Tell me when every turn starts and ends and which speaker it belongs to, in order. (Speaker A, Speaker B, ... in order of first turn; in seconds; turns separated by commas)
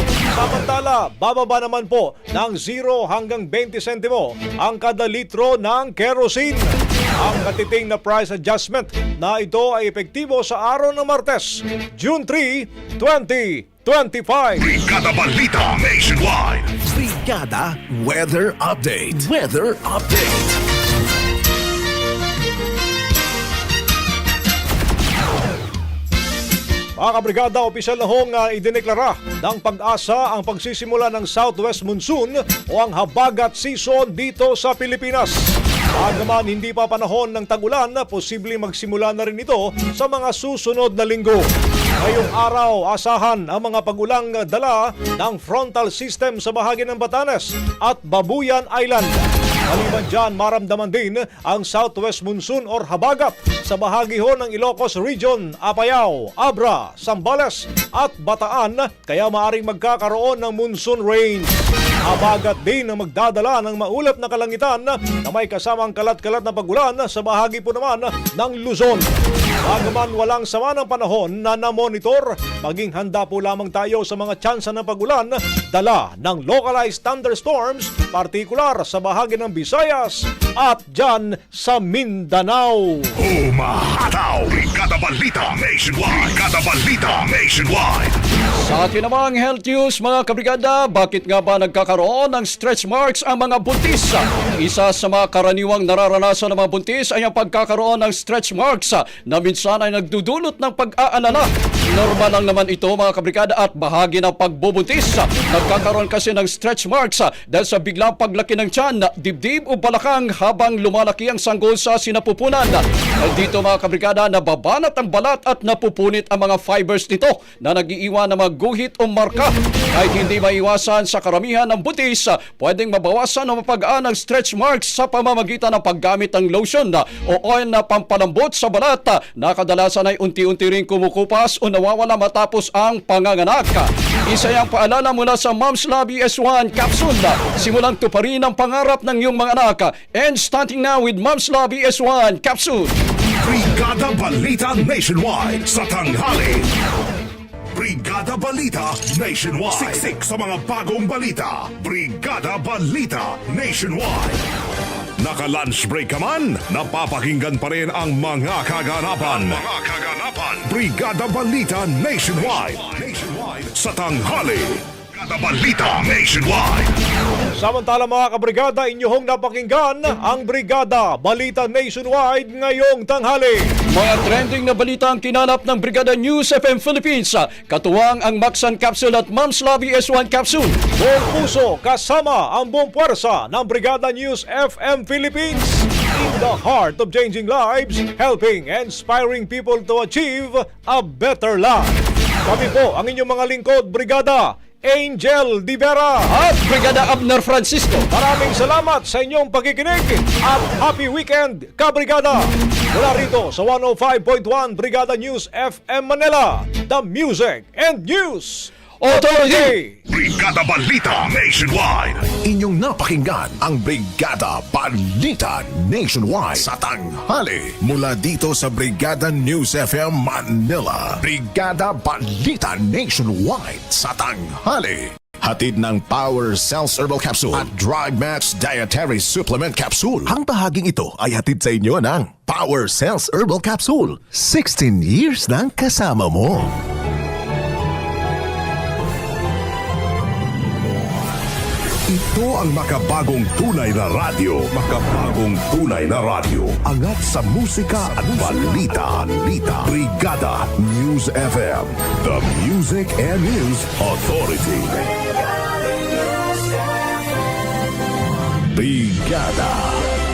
Speaker A: 0.3-14.7, Speaker B: 14.6-16.7, Speaker C: 16.8-20.6, Speaker A: 27.0-35.4, Speaker A: 36.0-41.5, Speaker A: 42.0-61.5, Speaker A: 62.1-69.1, Speaker A: 69.6-83.1, Speaker B: 83.2-88.2, Speaker D: 88.6-143.0, Speaker B: 143.4-146.7, Speaker B: 147.7-154.4, Speaker B: 155.2-166.9, Speaker A: 167.6-173.7, Speaker D: 173.9-180.8, Speaker A: 181.0-191.9, Speaker A: 192.4-196.3, Speaker D: 196.3-198.1, Speaker A: 198.1-210.0, Speaker D: 209.0-209.7, Speaker B: 210.1-212.3, Speaker C: 212.4-236.8, Speaker B: 242.1-255.0, Speaker C: 247.1-247.4, Speaker C: 248.2-248.8, Speaker C: 258.7-260.1